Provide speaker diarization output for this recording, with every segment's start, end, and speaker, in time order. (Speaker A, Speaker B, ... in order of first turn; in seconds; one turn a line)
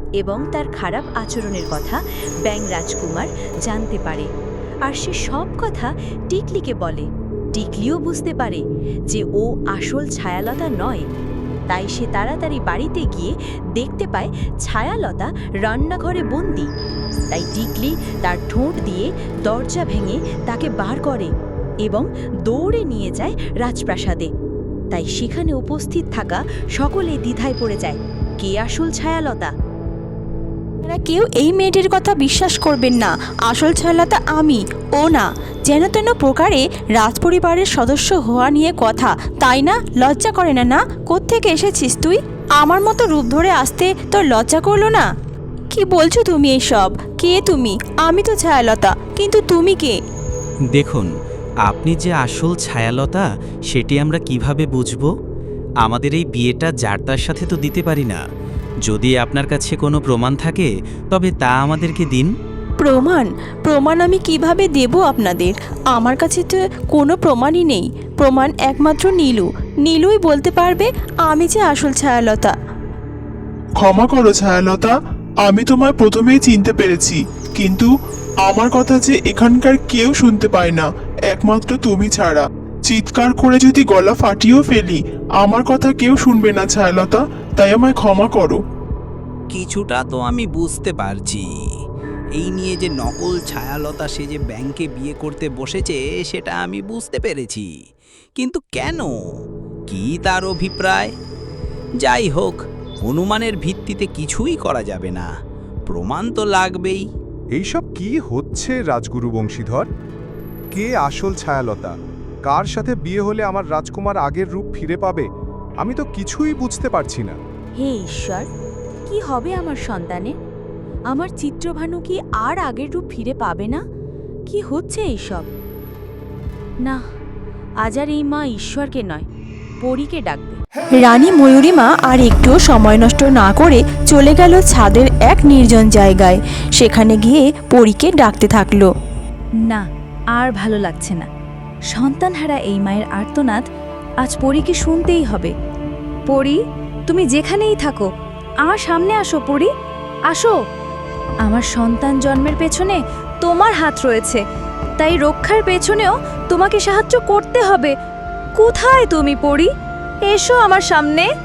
Speaker A: 0.2-4.3
Speaker A: 4.9-11.1
Speaker A: 11.7-16.7
Speaker A: 17.3-21.3
Speaker A: 21.8-24.3
Speaker A: 24.9-29.5
Speaker B: 30.8-45.1
Speaker B: 45.7-50.0
Speaker C: 50.7-51.1
Speaker C: 51.6-55.1
Speaker C: 55.8-58.2
Speaker C: 58.8-62.3
Speaker B: 62.8-72.5
Speaker D: 73.8-77.9
Speaker D: 78.4-88.6
Speaker E: 89.5-91.5
Speaker E: 92.4-97.7
Speaker E: 98.4-99.1
Speaker E: 99.9-101.1
Speaker E: 102.0-105.2
Speaker E: 105.9-107.0
Speaker F: 107.5-109.9
Speaker F: 110.7-111.9
Speaker F: 112.5-115.2
Speaker F: 115.8-117.4
Speaker A: 117.8-118.5
Speaker A: 119.1-120.3
Speaker A: 121.1-123.8
Speaker A: 124.5-125.5
Speaker A: 127.8-129.2
Speaker A: 129.8-130.6
Speaker B: 131.0-138.9
Speaker A: 139.6-141.3
Speaker A: 141.9-143.6
Speaker A: 144.2-145.5
Speaker A: 146.3-148.1
Speaker A: 148.7-149.7
Speaker A: 151.4-154.4
Speaker A: 155.0-157.9
Speaker A: 158.6-159.7
Speaker A: 160.2-161.2